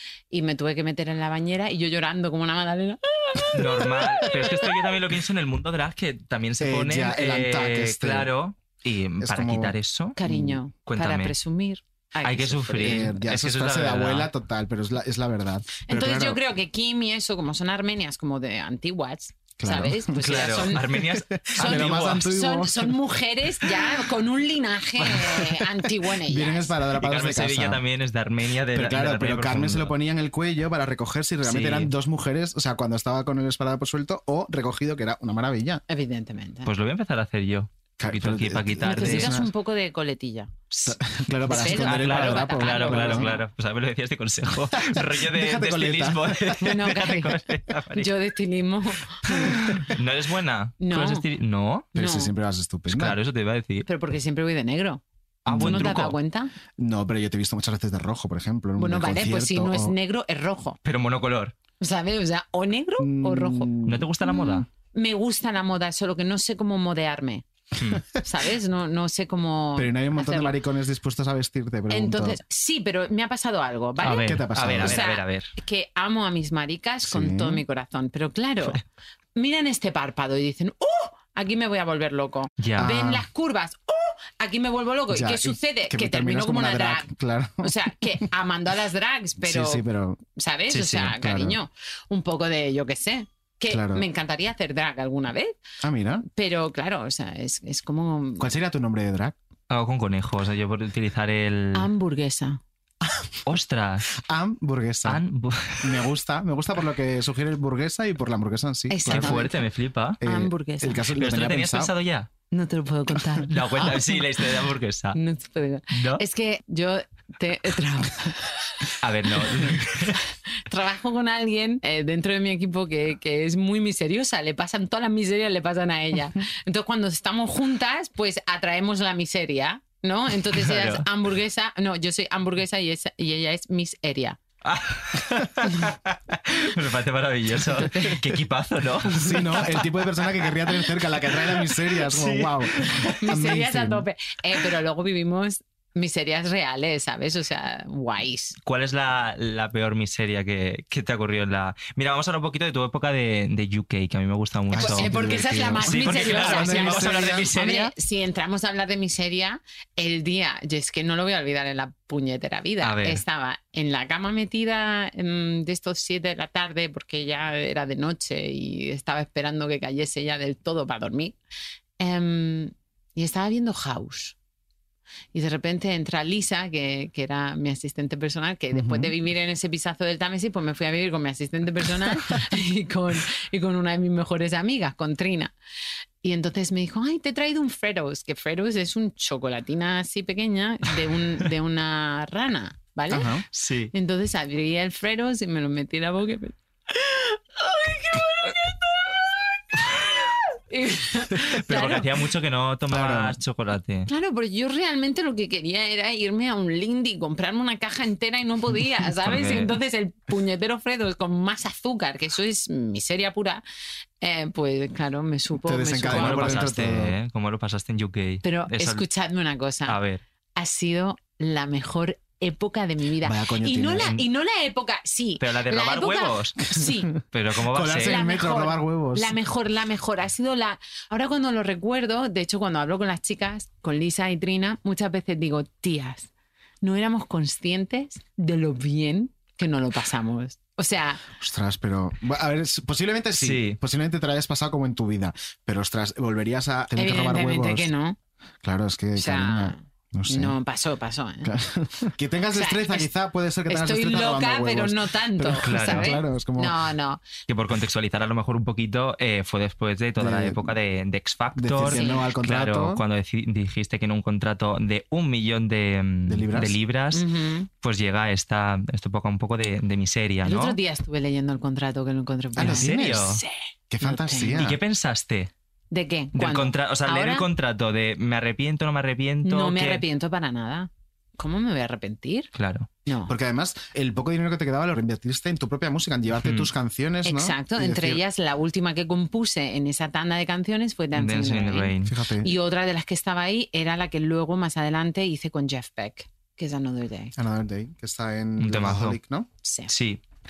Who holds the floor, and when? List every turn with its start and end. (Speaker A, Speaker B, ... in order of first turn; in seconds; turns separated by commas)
Speaker A: 0.3-4.7, Speaker B: 3.5-10.2, Speaker C: 6.6-8.3, Speaker C: 9.2-10.6, Speaker A: 10.2-13.0, Speaker B: 10.9-11.3, Speaker B: 12.2-14.3, Speaker C: 12.7-16.4, Speaker A: 15.9-20.9, Speaker C: 19.6-23.0, Speaker B: 20.1-22.3, Speaker A: 21.6-26.7, Speaker C: 26.2-27.8, Speaker B: 27.0-29.9, Speaker C: 28.7-35.8, Speaker B: 31.4-31.9, Speaker A: 35.9-36.7, Speaker B: 36.7-39.3, Speaker C: 38.0-39.5, Speaker A: 38.8-40.9, Speaker C: 40.8-43.4, Speaker A: 41.5-43.4, Speaker B: 41.6-48.1, Speaker C: 44.8-46.6, Speaker A: 46.6-47.4, Speaker A: 48.0-49.2, Speaker B: 49.3-51.9, Speaker A: 50.8-51.3, Speaker A: 52.0-52.3, Speaker C: 52.0-53.2, Speaker B: 52.9-53.9, Speaker A: 53.9-55.0, Speaker C: 55.5-56.0, Speaker B: 55.5-56.2, Speaker A: 55.6-56.5, Speaker C: 56.8-60.0, Speaker A: 58.8-60.8, Speaker B: 60.8-61.5, Speaker A: 61.8-63.7, Speaker C: 63.0-64.5, Speaker B: 63.9-64.7, Speaker A: 64.3-67.5, Speaker B: 67.8-68.0, Speaker A: 68.2-70.6, Speaker C: 69.8-72.4, Speaker A: 71.9-78.8, Speaker B: 74.0-75.5, Speaker C: 74.2-75.0, Speaker C: 77.1-77.6, Speaker A: 79.4-87.1, Speaker B: 82.6-82.9, Speaker C: 82.8-83.3, Speaker C: 85.1-88.2, Speaker A: 87.6-89.8, Speaker C: 89.4-90.2, Speaker A: 90.3-95.6, Speaker B: 90.7-91.2, Speaker C: 91.0-91.6, Speaker C: 93.7-94.0, Speaker C: 95.8-96.3, Speaker A: 96.2-98.5, Speaker C: 98.4-99.4, Speaker B: 99.7-101.9, Speaker A: 101.8-102.6, Speaker B: 103.5-104.1, Speaker C: 104.2-105.2, Speaker B: 105.0-106.0, Speaker C: 105.8-109.4, Speaker A: 108.9-109.5, Speaker B: 109.1-110.2, Speaker C: 110.2-111.9, Speaker A: 110.2-111.1, Speaker B: 111.2-112.3, Speaker A: 112.5-114.3, Speaker B: 113.5-115.2, Speaker A: 115.2-118.5, Speaker B: 115.9-116.2, Speaker B: 119.0-120.2, Speaker A: 120.7-134.4, Speaker B: 130.5-131.1, Speaker B: 134.6-139.9, Speaker A: 137.8-138.2, Speaker C: 139.1-144.1, Speaker B: 141.4-143.2, Speaker A: 143.2-148.6, Speaker B: 148.7-155.1, Speaker C: 154.7-157.5, Speaker A: 154.8-171.4, Speaker B: 155.8-157.9, Speaker B: 162.8-163.2, Speaker A: 172.0-174.3, Speaker A: 175.3-185.5, Speaker C: 178.7-179.1, Speaker A: 186.2-193.3, Speaker C: 193.1-193.4, Speaker B: 193.5-193.9, Speaker A: 193.9-198.9, Speaker A: 200.7-202.1, Speaker B: 201.4-204.1, Speaker C: 202.9-203.4, Speaker A: 204.1-213.6, Speaker B: 209.2-209.8, Speaker A: 214.2-216.7, Speaker C: 215.7-217.1, Speaker B: 216.1-219.1, Speaker A: 218.4-220.0, Speaker B: 219.9-220.2, Speaker A: 220.6-227.1, Speaker C: 223.2-224.2, Speaker B: 225.4-226.6, Speaker B: 227.3-228.2, Speaker C: 227.7-229.3, Speaker A: 228.0-236.3, Speaker A: 236.8-241.2, Speaker C: 241.4-247.9, Speaker B: 243.4-243.8, Speaker A: 246.9-248.2, Speaker C: 248.6-250.6, Speaker A: 249.2-251.5, Speaker C: 251.4-256.8, Speaker A: 252.5-253.1, Speaker A: 253.7-257.3, Speaker B: 255.6-256.2, Speaker B: 257.5-267.2, Speaker C: 260.2-260.7, Speaker C: 261.6-263.0, Speaker A: 261.9-262.3, Speaker C: 266.3-266.8, Speaker A: 267.1-267.7, Speaker B: 267.8-270.8, Speaker A: 270.4-274.6, Speaker C: 272.6-274.8, Speaker B: 272.6-273.4, Speaker B: 274.5-275.5, Speaker A: 275.9-277.5, Speaker B: 276.4-280.0, Speaker A: 279.4-282.5, Speaker B: 282.6-282.9, Speaker A: 283.1-283.3, Speaker C: 283.3-288.2, Speaker B: 286.4-286.7, Speaker A: 287.2-297.3, Speaker B: 291.1-292.1, Speaker C: 292.0-292.5, Speaker C: 297.4-299.5, Speaker B: 298.6-299.2, Speaker A: 299.6-299.9, Speaker B: 299.9-300.2